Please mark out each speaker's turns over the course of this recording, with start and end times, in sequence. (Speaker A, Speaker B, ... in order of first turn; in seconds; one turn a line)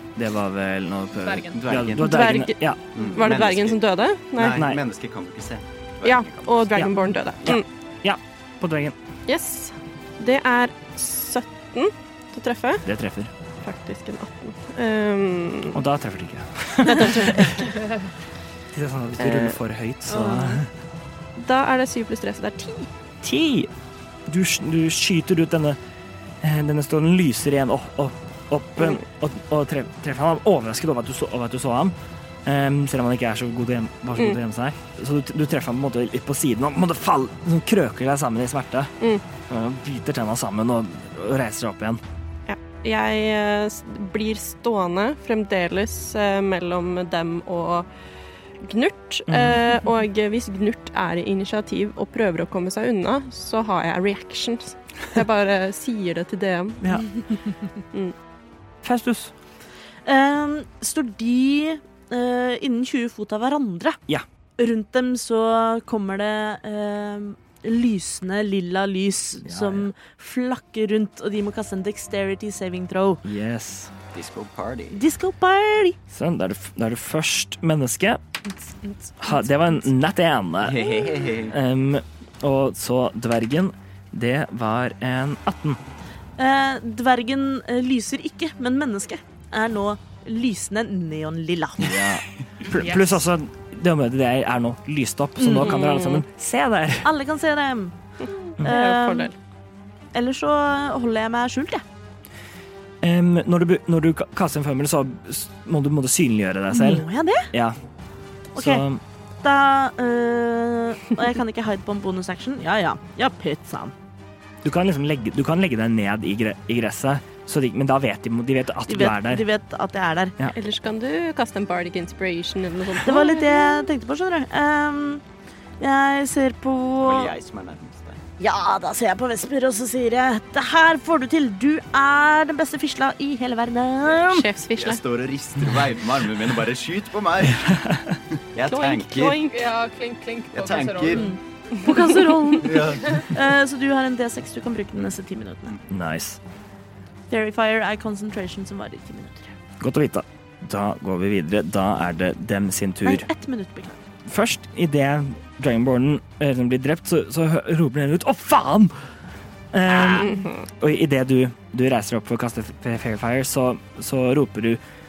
Speaker A: 0.1-2.8
Speaker B: 1.2-1.6
Speaker C: 1.5-2.4
Speaker D: 2.0-4.6
Speaker C: 2.9-3.8
Speaker C: 4.3-6.8
Speaker A: 4.5-4.8
Speaker D: 6.0-7.7
Speaker A: 7.4-8.9
Speaker D: 9.3-12.8
Speaker A: 12.8-13.3
Speaker D: 13.6-15.8
Speaker A: 15.7-17.6
Speaker D: 16.9-17.7
Speaker A: 18.7-20.7
Speaker D: 19.2-19.6
Speaker E: 20.1-20.6
Speaker D: 21.4-22.9
Speaker A: 23.2-23.7
Speaker A: 24.3-25.8
Speaker A: 26.4-38.9
Speaker A: 39.5-42.0
Speaker D: 42.5-47.9
Speaker D: 48.6-56.8
Speaker A: 49.3-49.6
Speaker A: 58.8-59.3
Speaker E: 60.0-64.0
Speaker E: 64.6-73.2
Speaker A: 69.4-69.9
Speaker A: 73.2-73.9
Speaker C: 74.1-75.0
Speaker E: 74.9-76.0
Speaker A: 76.1-78.2
Speaker B: 78.6-79.3
Speaker A: 79.2-85.8
Speaker C: 80.6-81.6
Speaker E: 86.4-92.1
Speaker A: 91.8-97.1
Speaker B: 92.7-93.2
Speaker E: 95.4-96.2
Speaker D: 95.7-96.2
Speaker E: 97.0-98.0
Speaker D: 98.2-99.3
Speaker E: 98.5-99.3
Speaker E: 100.1-101.8
Speaker A: 103.0-107.8
Speaker E: 106.7-107.5
Speaker E: 108.5-108.8
Speaker A: 108.5-109.0
Speaker E: 109.4-113.9
Speaker A: 114.6-119.4
Speaker E: 118.9-120.3
Speaker D: 120.5-123.8
Speaker E: 123.0-125.2
Speaker E: 125.8-127.3
Speaker C: 127.0-128.2
Speaker E: 128.4-134.5
Speaker D: 134.1-135.0
Speaker C: 134.8-137.8
Speaker A: 137.7-138.1
Speaker C: 138.5-139.4
Speaker D: 138.6-139.7
Speaker B: 139.5-141.4
Speaker C: 140.5-141.3
Speaker E: 141.1-145.8
Speaker D: 141.8-142.5
Speaker C: 142.6-143.2
Speaker A: 145.9-146.4
Speaker E: 147.3-149.5
Speaker A: 149.8-153.3
Speaker E: 153.0-154.0
Speaker A: 154.2-158.9
Speaker A: 159.7-164.8
Speaker C: 159.9-160.2
Speaker D: 160.2-160.6